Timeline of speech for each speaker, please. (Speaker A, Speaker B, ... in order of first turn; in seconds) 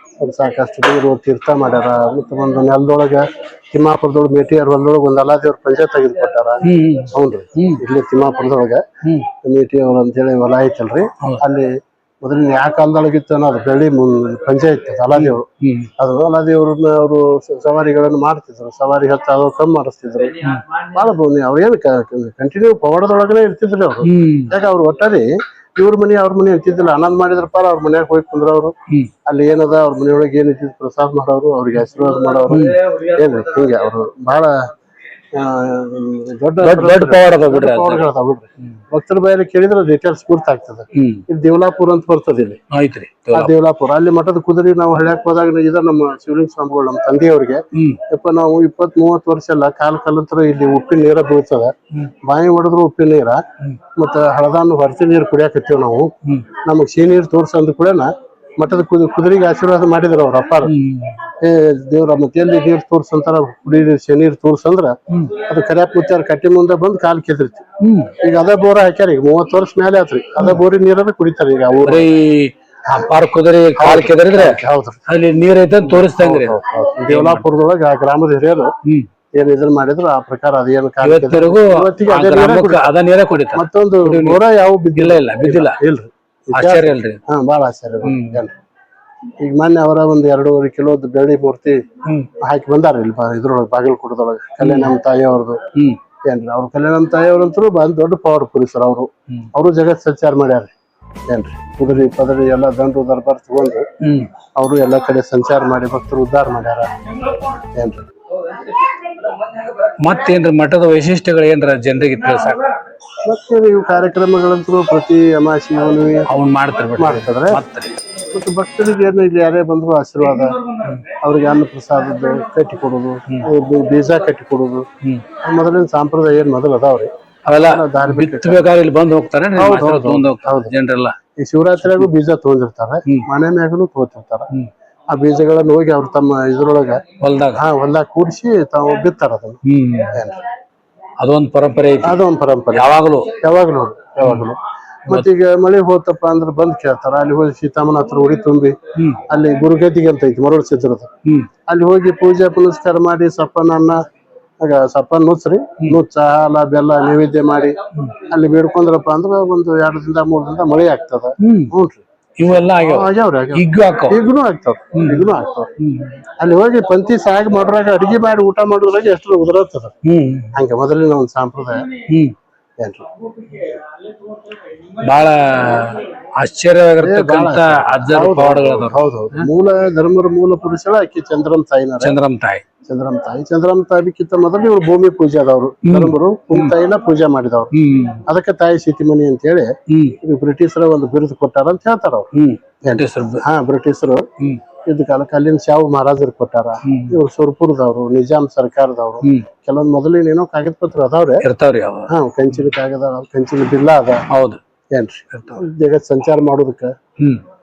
Speaker A: 0.2-8.8, 9.4-11.7, 12.2-15.5, 16.0-28.7, 29.3-34.7, 35.3-42.6, 43.3-53.4, 54.0-60.7, 61.4-67.7, 68.2-72.1, 73.8-75.0, 75.9-78.7, 79.3-82.9, 83.5-88.5, 89.4-91.8, 92.4-95.6, 96.3-100.7, 101.3-103.9, 104.5-106.9, 107.7-108.1, 113.2-116.3, 117.0-117.6, 118.3-120.6, 121.1-124.9, 125.4-128.7, 129.6-130.7, 131.4-134.5, 135.1-137.0, 137.6-140.4, 142.0-148.8, 149.3-151.1, 151.7-154.0, 154.6-162.0, 162.6-165.7, 166.4-169.9, 170.5-171.9, 172.8-173.1, 177.0-182.2, 182.8-187.7, 188.3-192.3, 192.8-194.3, 194.8-201.4, 202.1-204.2, 204.9-206.9
Speaker B: 6.6-7.8, 15.2-15.9, 24.0-24.6, 32.5-32.8, 36.6-38.0, 40.9-41.2, 42.7-43.5, 47.7-48.0, 60.6-61.2, 65.1-65.4, 67.8-68.1, 71.8-77.5, 81.0-84.4, 85.0-85.8, 86.5-87.2, 88.0-88.4, 92.0-92.3, 94.6-94.9, 95.7-96.0, 104.0-104.3, 109.8-112.7, 116.3-118.0, 127.5-131.2, 137.2-137.6, 139.7-140.2, 141.2-143.3, 144.2-144.5, 148.9-149.2, 161.4-161.7, 162.4-164.2, 164.9-166.2, 170.0-170.6, 172.1-172.3, 175.0-179.5, 182.0-182.6, 185.8-186.7, 187.7-188.2, 189.9-190.2, 192.3-193.4, 196.8-197.2, 201.4-202.7, 204.3-204.6, 205.3-205.6